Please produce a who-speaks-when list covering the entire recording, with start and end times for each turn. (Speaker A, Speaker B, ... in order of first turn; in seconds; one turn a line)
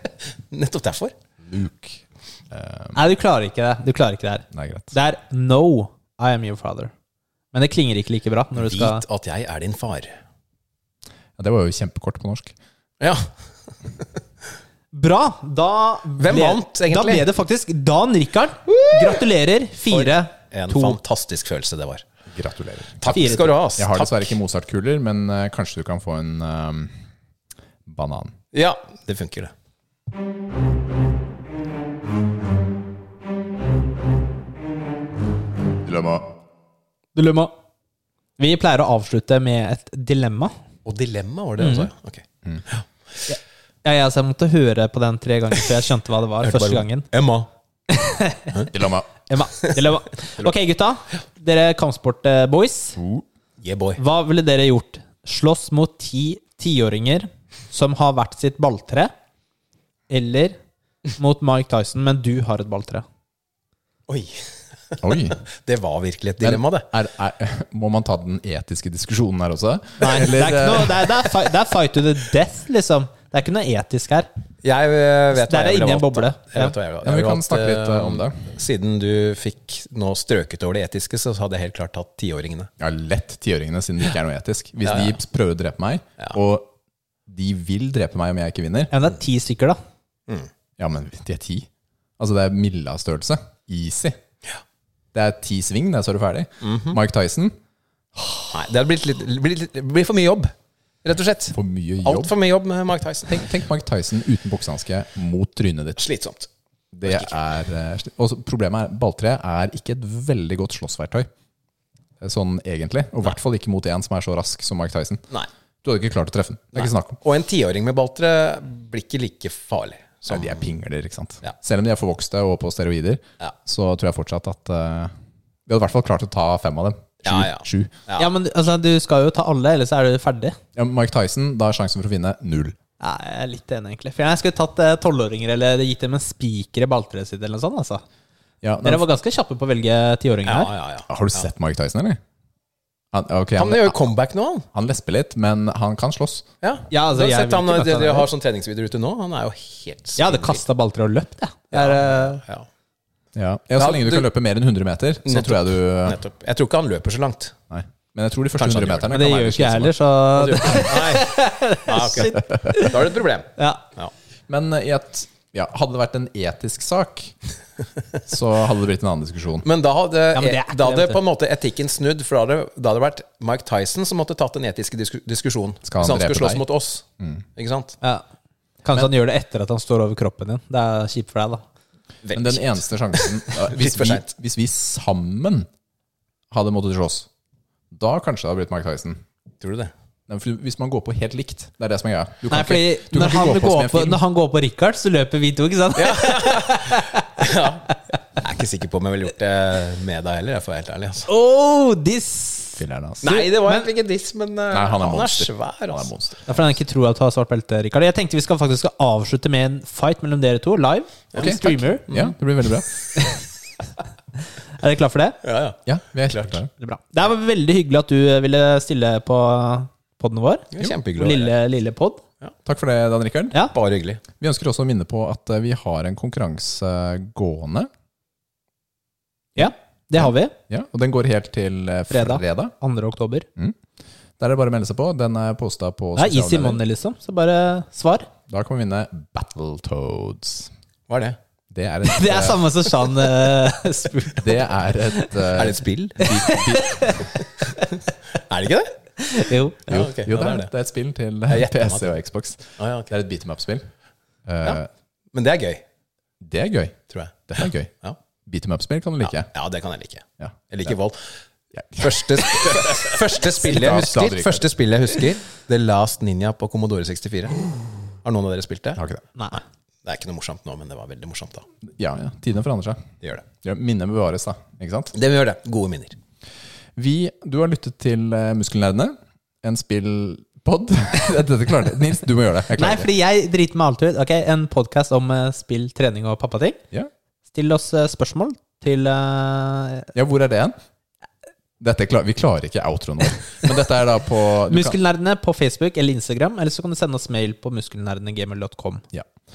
Speaker A: 0.5-1.1
Speaker B: 1.4-3.0
Speaker C: 3.0-6.9
Speaker B: 4.5-4.9
Speaker C: 7.5-9.0
Speaker A: 8.5-10.1
Speaker B: 11.4-12.6
Speaker A: 13.0-13.3
Speaker C: 14.9-21.0
Speaker A: 16.2-17.3
Speaker A: 18.7-19.2
Speaker A: 19.9-22.0
Speaker B: 22.3-27.0
Speaker A: 23.0-24.4
Speaker C: 23.1-23.5
Speaker B: 27.9-28.4
Speaker A: 28.5-29.5
Speaker B: 35.8-36.3
Speaker C: 37.1-37.5
Speaker C: 38.4-40.5
Speaker A: 40.9-42.8
Speaker C: 41.6-41.9
Speaker C: 43.3-47.1
Speaker A: 46.4-47.5
Speaker C: 47.9-48.7
Speaker B: 48.7-49.1
Speaker C: 49.3-53.0
Speaker B: 53.0-53.2
Speaker A: 53.6-54.0
Speaker C: 54.0-59.1
Speaker C: 60.1-60.6
Speaker C: 61.2-63.0
Speaker A: 64.1-66.9
Speaker B: 65.0-65.4
Speaker B: 66.4-71.1
Speaker C: 70.0-74.3
Speaker A: 74.6-82.7
Speaker C: 75.3-76.7
Speaker B: 77.0-78.5
Speaker B: 82.8-86.7
Speaker A: 84.8-85.2
Speaker B: 87.3-88.9
Speaker C: 88.9-89.8
Speaker B: 90.8-91.7
Speaker B: 92.2-94.2
Speaker B: 95.1-97.5
Speaker A: 96.6-97.0
Speaker A: 98.5-103.4
Speaker B: 101.5-102.3
Speaker B: 103.3-106.0
Speaker A: 106.0-106.5
Speaker B: 106.9-111.3
Speaker A: 107.0-107.4
Speaker B: 112.2-115.2
Speaker B: 115.8-117.2
Speaker A: 116.8-120.7
Speaker B: 120.3-125.1
Speaker B: 125.7-127.9
Speaker A: 127.2-128.3
Speaker C: 128.2-130.6
Speaker B: 130.8-132.8
Speaker C: 133.0-138.0
Speaker B: 138.6-139.1
Speaker C: 138.8-140.7
Speaker A: 140.4-141.5
Speaker B: 141.1-142.2
Speaker B: 143.1-144.0
Speaker A: 143.6-144.7
Speaker B: 144.7-146.4
Speaker A: 146.6-150.7
Speaker C: 146.9-148.3
Speaker C: 150.2-152.4
Speaker A: 151.7-152.7
Speaker B: 153.3-156.2
Speaker A: 153.8-154.3
Speaker A: 155.3-157.5
Speaker B: 157.7-159.9
Speaker A: 158.6-159.1
Speaker C: 159.1-163.0
Speaker A: 160.4-164.1
Speaker B: 162.4-162.7
Speaker C: 163.6-163.8
Speaker B: 164.5-167.4
Speaker B: 168.3-169.7
Speaker A: 169.6-177.0
Speaker C: 170.3-171.2
Speaker B: 175.8-176.7
Speaker B: 177.2-177.4
Speaker A: 177.6-178.0
Speaker C: 178.8-181.6
Speaker A: 182.2-184.3
Speaker B: 182.3-185.7
Speaker B: 186.5-187.3
Speaker B: 187.9-189.2
Speaker A: 189.6-189.9
Speaker B: 190.3-194.2
Speaker C: 192.5-197.4
Speaker A: 196.0-201.3
Speaker C: 201.3-203.9
Speaker B: 202.8-203.2
Speaker A: 203.2-206.1
Speaker B: 204.7-206.4
Speaker C: 206.5-212.1
Speaker B: 211.4-212.9
Speaker A: 212.1-212.3
Speaker C: 213.2-213.4
Speaker C: 214.8-215.4
Speaker A: 215.4-216.6
Speaker B: 215.9-216.7
Speaker C: 216.8-222.2
Speaker A: 220.7-221.5
Speaker B: 222.7-223.6
Speaker A: 223.7-224.2
Speaker B: 224.4-227.9
Speaker C: 229.6-230.5
Speaker B: 230.2-232.7
Speaker C: 232.1-233.5
Speaker B: 234.4-236.8
Speaker C: 236.2-238.3
Speaker B: 238.5-240.7
Speaker A: 241.1-241.4
Speaker B: 241.7-242.7
Speaker C: 242.1-245.3
Speaker B: 244.4-247.2
Speaker A: 245.5-246.4
Speaker C: 246.3-247.4
Speaker A: 248.3-248.9
Speaker C: 249.2-249.8
Speaker A: 249.9-250.7
Speaker B: 249.9-253.9
Speaker A: 251.5-252.1
Speaker A: 252.8-253.1
Speaker B: 254.5-254.9
Speaker A: 255.3-255.8
Speaker B: 256.4-257.9
Speaker A: 257.1-258.2
Speaker B: 258.5-259.5
Speaker A: 259.2-261.2
Speaker B: 260.4-260.9
Speaker B: 261.7-264.7
Speaker A: 262.0-269.0
Speaker B: 269.0-269.2
Speaker C: 269.4-269.6
Speaker A: 270.0-271.7
Speaker B: 271.9-273.1
Speaker B: 273.6-275.1
Speaker A: 275.1-276.2
Speaker B: 277.0-283.1
Speaker C: 282.8-286.8
Speaker C: 287.5-290.1
Speaker B: 290.1-290.8
Speaker B: 291.8-295.0
Speaker C: 294.7-299.0